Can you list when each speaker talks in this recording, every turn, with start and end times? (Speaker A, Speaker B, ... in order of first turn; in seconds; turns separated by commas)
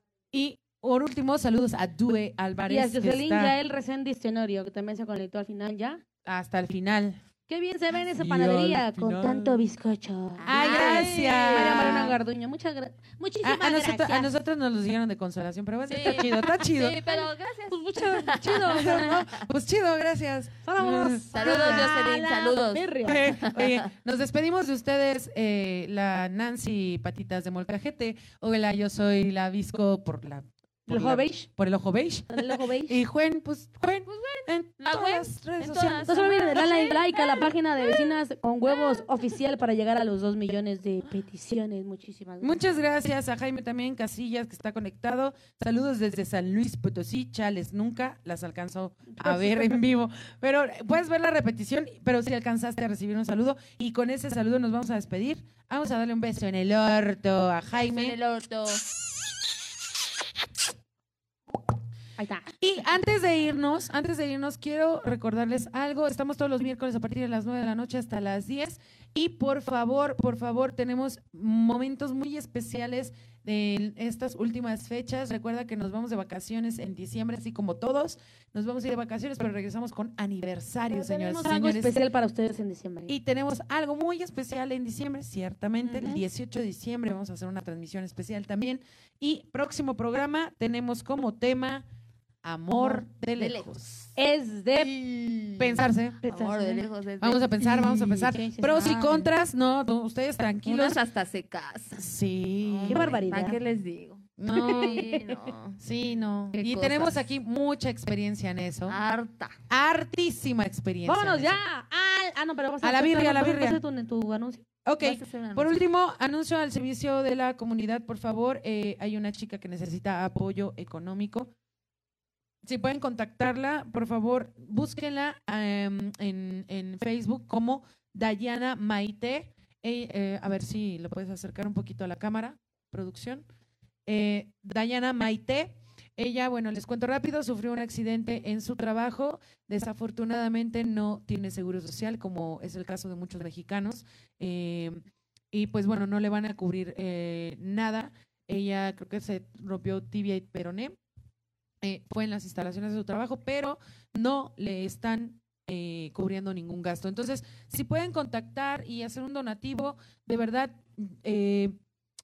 Speaker A: 0.3-3.6, Speaker B: 2.7-6.0, Speaker A: 6.2-7.2, Speaker B: 7.5-14.3, Speaker A: 8.1-9.6, Speaker C: 10.4-12.2, Speaker A: 10.5-12.2, Speaker A: 13.4-17.0, Speaker C: 15.9-19.2, Speaker B: 17.1-19.2, Speaker A: 18.6-21.9, Speaker B: 20.6-23.3, Speaker C: 21.3-23.9, Speaker A: 23.0-36.1, Speaker B: 30.9-31.5, Speaker B: 32.3-33.0, Speaker C: 34.1-38.0, Speaker B: 36.1-42.6, Speaker C: 38.7-39.0, Speaker A: 42.4-58.1, Speaker B: 49.1-49.8, Speaker C: 57.7-58.8, Speaker B: 62.2-62.5, Speaker A: 62.6-82.0, Speaker B: 80.9-83.1, Speaker A: 83.1-91.8, Speaker B: 85.8-86.2, Speaker A: 92.4-93.9, Speaker C: 93.4-94.1, Speaker B: 94.2-95.7, Speaker A: 95.6-96.2, Speaker B: 96.2-96.8, Speaker C: 96.2-99.1, Speaker A: 97.2-101.0, Speaker B: 97.8-99.3, Speaker C: 100.6-102.0, Speaker A: 102.0-103.2, Speaker C: 102.6-105.8, Speaker B: 102.9-103.6, Speaker A: 104.4-105.2, Speaker B: 104.5-105.2, Speaker A: 105.8-108.9, Speaker C: 106.5-107.2, Speaker C: 108.9-109.6, Speaker A: 109.7-111.6, Speaker B: 111.0-114.6, Speaker A: 112.8-113.8, Speaker A: 114.8-121.5, Speaker C: 115.0-115.8, Speaker A: 122.6-133.4, Speaker A: 134.1-145.0, Speaker A: 145.5-151.0, Speaker A: 151.8-161.8